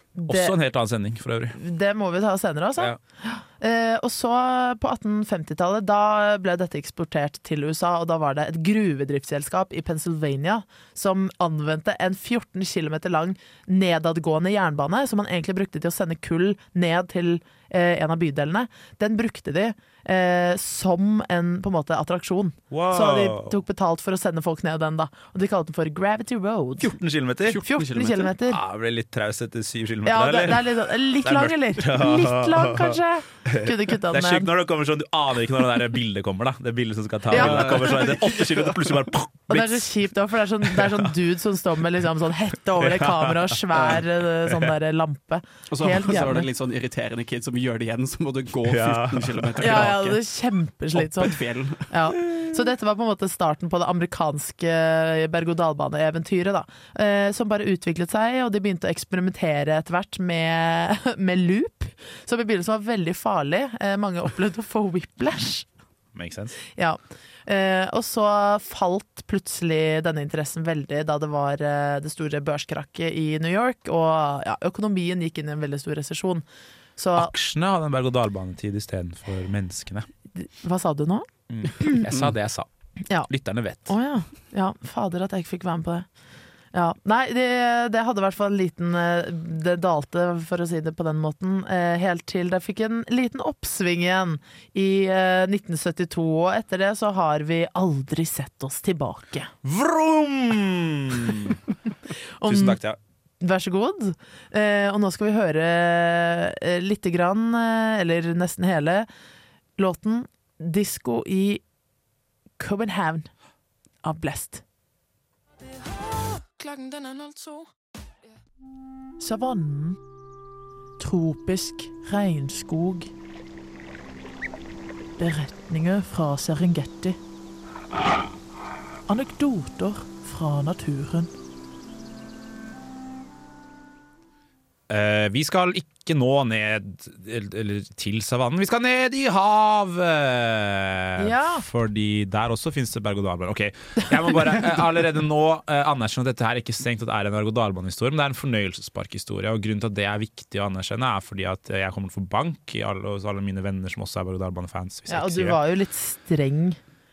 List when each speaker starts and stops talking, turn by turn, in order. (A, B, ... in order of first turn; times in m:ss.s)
0:00.2-0:00.6 A
0:00.3-0:01.6 B
0:01.5-0:26.9 A
0:22.7-0:23.6 B
0:26.8-0:27.6 B
0:27.4-0:28.3 C
0:27.6-0:28.6 A
0:28.4-0:40.0 B
0:30.0-0:34.5 A
0:37.3-0:38.0 A
0:37.3-0:38.7 C
0:39.5-0:46.5 A
0:40.6-0:41.1 B
0:42.8-0:44.7 B
0:45.7-0:50.2 C
0:48.6-0:49.9 B
0:49.6-0:51.4 A
0:50.9-0:51.9 C
0:51.9-1:05.7 A
1:06.1-1:06.6 B
1:06.7-1:16.4 A
1:17.0-1:17.3 A
1:17.2-1:20.1 B
1:20.3-1:21.3 A
1:21.5-1:22.7 B
1:23.3-1:23.9 B
1:23.8-1:26.1 A
1:26.7-1:39.5 A
1:39.6-1:41.6 B
1:42.4-1:42.8 A
1:42.4-1:43.0 B
1:43.4-1:49.1 A
1:49.8-1:51.6 A
1:52.6-1:53.3 A
1:54.0-1:54.6 A
1:59.2-2:00.0 A
2:01.0-2:03.1 A
2:05.2-2:07.2 A
2:09.1-2:11.3 A
2:14.9-2:35.6 B
2:21.2-2:21.6 A
2:35.1-2:36.8 A